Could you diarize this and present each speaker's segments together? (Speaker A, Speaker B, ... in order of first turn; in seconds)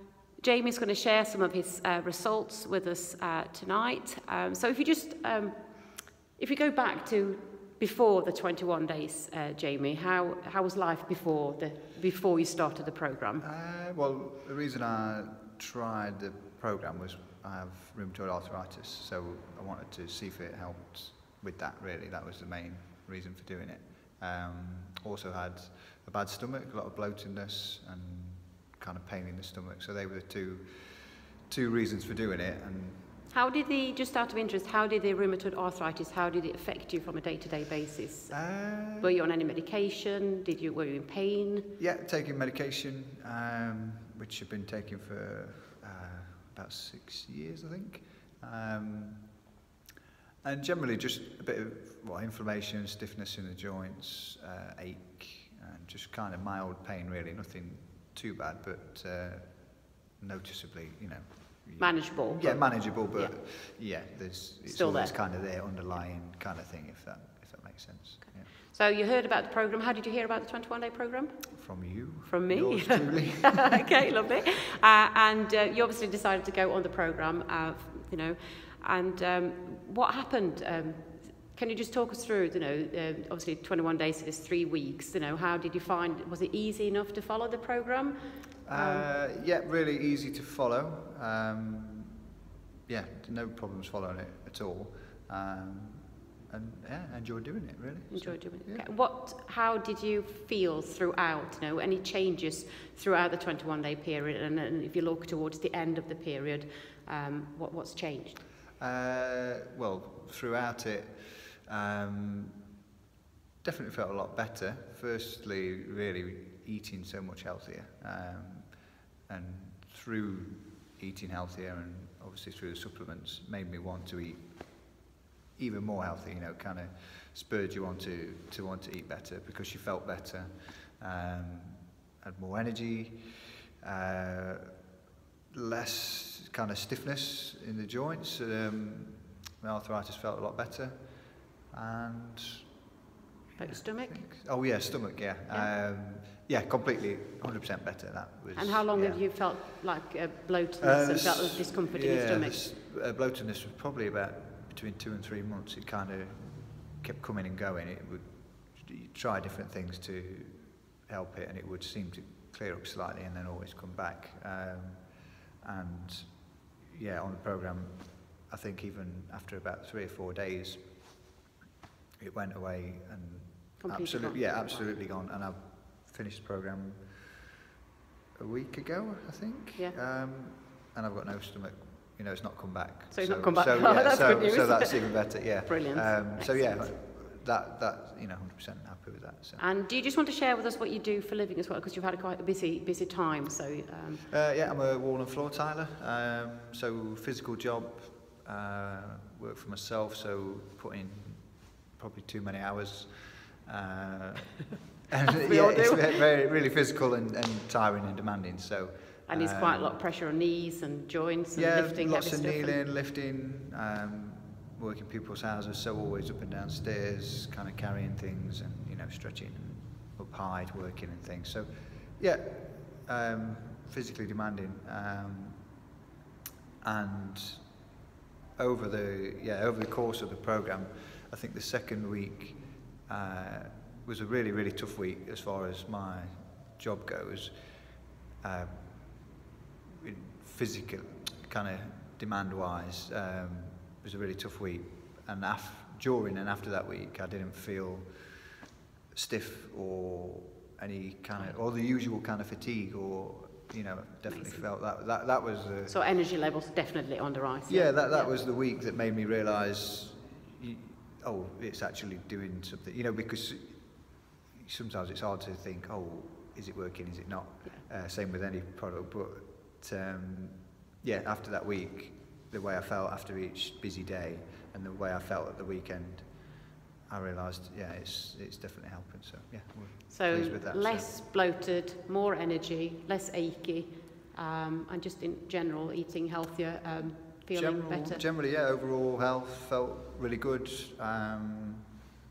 Speaker A: 0.4-5.6, 6.3-13.4, 33.3-41.7, 61.8-63.4, 64.7-65.2, 68.3-89.1, 98.1-108.4, 143.6-144.2, 148.6-152.6, 173.8-174.9, 183.1-186.9, 189.6-194.4, 205.4-206.2, 209.3-212.8, 254.3-254.7, 255.9-258.4, 280.1-288.2
Speaker B: 13.4-33.0, 38.3-39.1, 41.8-49.4, 50.4-68.5, 71.5-74.1, 88.7-92.2, 92.9-98.9, 108.8-112.6, 113.6-125.0, 125.6-134.8, 135.5-142.8, 143.6-149.6, 150.8-171.3, 172.2-177.5, 178.4-189.7, 194.3-210.0, 211.5-225.8, 226.8-227.7, 228.6-239.4, 240.0-256.0, 257.7-281.1, 287.5-292.0